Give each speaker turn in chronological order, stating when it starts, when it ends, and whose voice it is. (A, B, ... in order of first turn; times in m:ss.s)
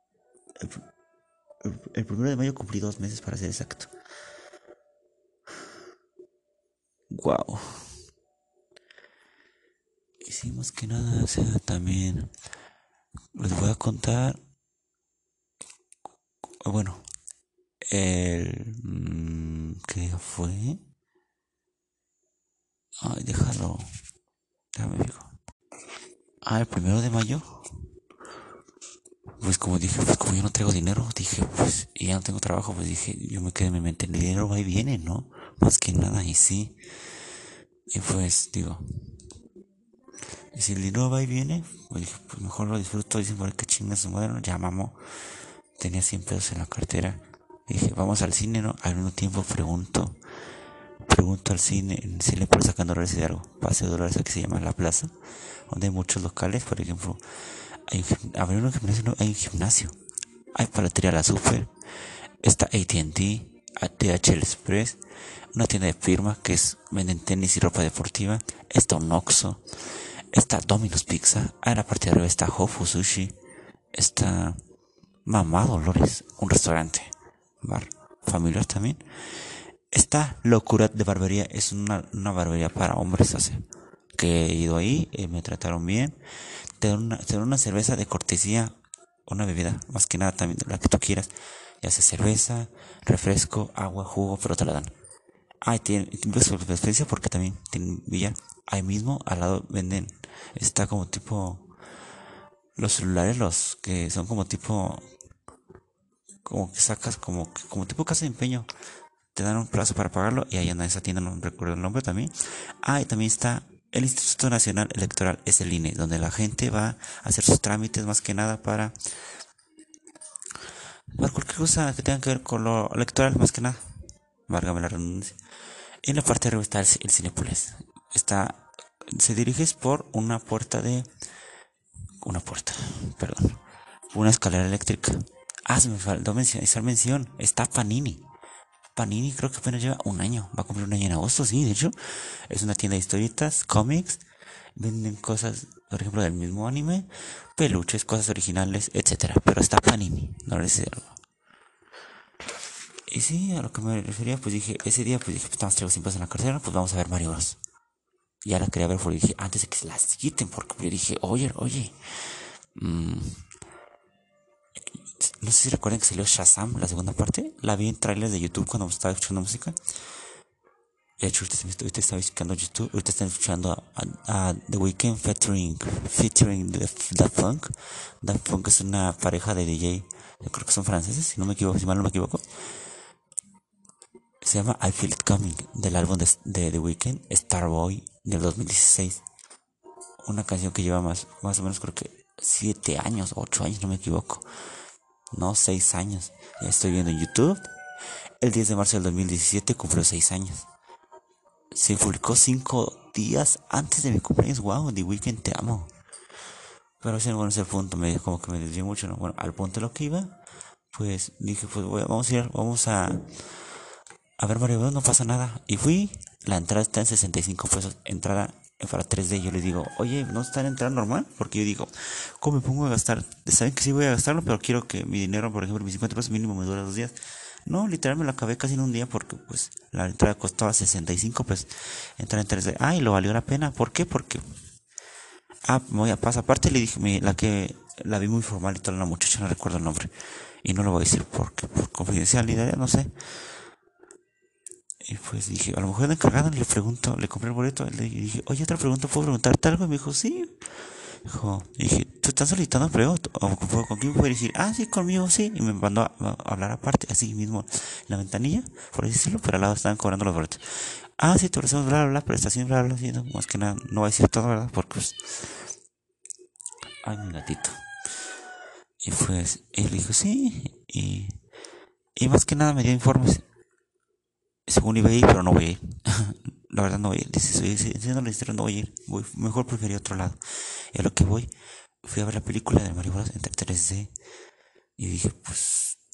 0:01.6-0:03.9 A
0:07.1-0:07.9 A
0:10.2-0:12.3 A
0:13.3-0:14.4 A
0:16.6-0:17.0 A
0:17.9-0:20.8 A
0:23.0-0:23.9 A
0:24.7-0:25.3 A
0:26.4-0:27.6 A
0:29.4-0:36.8 A
0:37.9-0:38.8 A
0:40.5-0:45.0 A
0:45.8-0:50.2 A
0:51.1-0:55.1 A
0:55.7-1:00.0 A
1:00.6-1:01.7 A
1:02.4-1:05.0 A
1:05.5-1:13.4 A
1:13.9-1:14.6 A
1:15.3-1:23.6 A
1:24.2-1:28.8 A
1:29.3-1:34.9 A
1:35.6-1:41.7 A
1:42.8-1:45.0 A
1:46.4-1:48.7 A
1:49.3-1:59.0 A
2:01.1-2:03.8 A
2:04.5-2:05.4 A
2:06.0-2:11.1 A
2:12.2-2:13.6 A
2:14.1-2:18.2 A
2:19.0-2:24.2 A
2:24.8-2:31.2 A
2:33.1-2:37.6 A
2:38.4-2:43.4 A
2:45.0-2:49.8 A
2:51.2-3:02.4 A
3:04.4-3:09.2 A
3:10.2-3:14.5 A
3:15.3-3:17.7 A
3:18.4-3:20.7 A
3:21.7-3:25.9 A
3:27.0-3:30.4 A
3:30.9-3:33.5 A
3:34.4-3:54.4 A
3:55.7-4:00.1 A
4:00.6-4:03.1 A
4:05.0-4:10.7 A
4:11.2-4:25.6 A
4:27.0-4:27.8 A
4:29.0-4:31.4 A
4:32.2-4:33.4 A
4:34.7-4:41.5 A
4:42.0-4:44.1 A
4:45.0-4:46.0 A